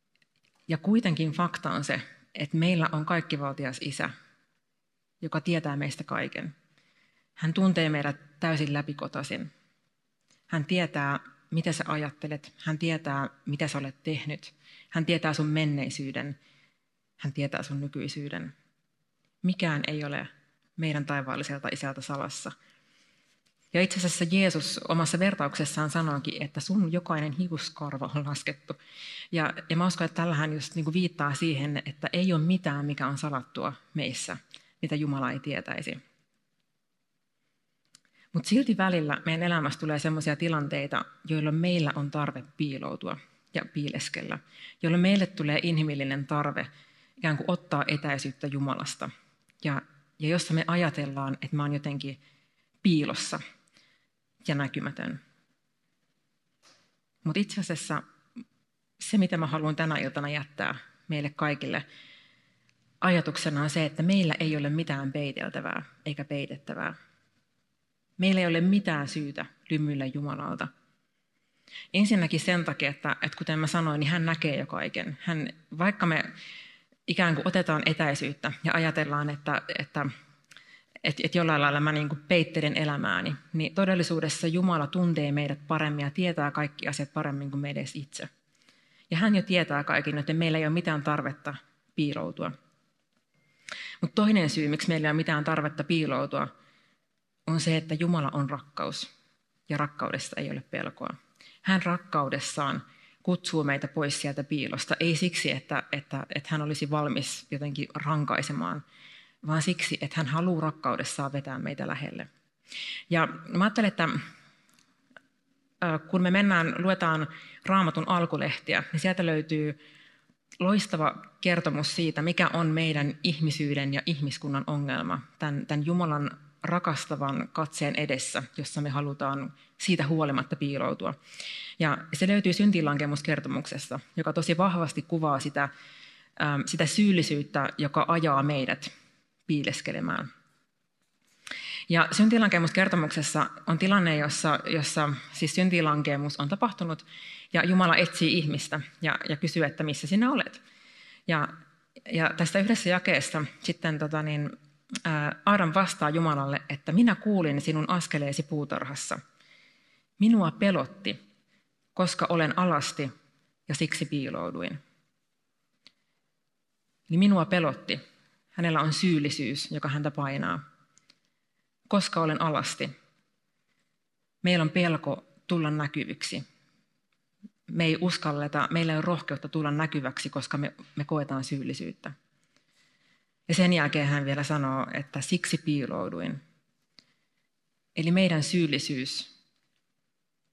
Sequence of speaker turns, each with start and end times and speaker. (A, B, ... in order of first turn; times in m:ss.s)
0:00.7-0:04.1 A
0:05.2-0:06.5 A
0:07.4-0:09.5 A
0:10.5-0:16.4 A
0:17.2-0:18.5 A
0:19.4-0:22.5 A
0:23.7-0:28.8 A
0:29.3-0:36.0 A
0:38.3-0:46.7 A
0:47.2-0:49.1 A
0:49.6-0:52.2 A
0:52.8-0:53.4 A
0:54.4-0:55.2 A
0:57.2-0:58.0 A
0:59.0-1:01.8 A
1:03.0-1:07.0 A
1:08.2-1:10.7 A
1:11.9-1:16.3 A
1:17.1-1:20.1 A
1:21.0-1:28.3 A
1:29.1-1:32.5 A
1:34.0-1:36.5 A
1:37.5-1:39.1 A
1:39.7-1:48.8 A
1:49.4-1:52.3 A
1:53.1-1:54.2 A
1:55.8-1:59.8 A
2:00.6-2:11.2 A
2:11.8-2:15.7 A
2:16.4-2:18.9 A
2:19.5-2:20.3 A
2:21.9-2:30.6 A
2:31.3-2:31.5 A
2:32.1-2:34.5 A
2:35.0-2:39.2 A
2:40.2-2:41.2 A
2:42.0-2:43.1 A
2:43.7-2:44.8 A
2:47.1-2:48.0 A
2:48.6-2:50.6 A
2:51.9-2:52.9 A
2:54.4-2:56.4 A
2:57.7-3:02.1 A
3:03.5-3:06.4 A
3:08.0-3:09.3 A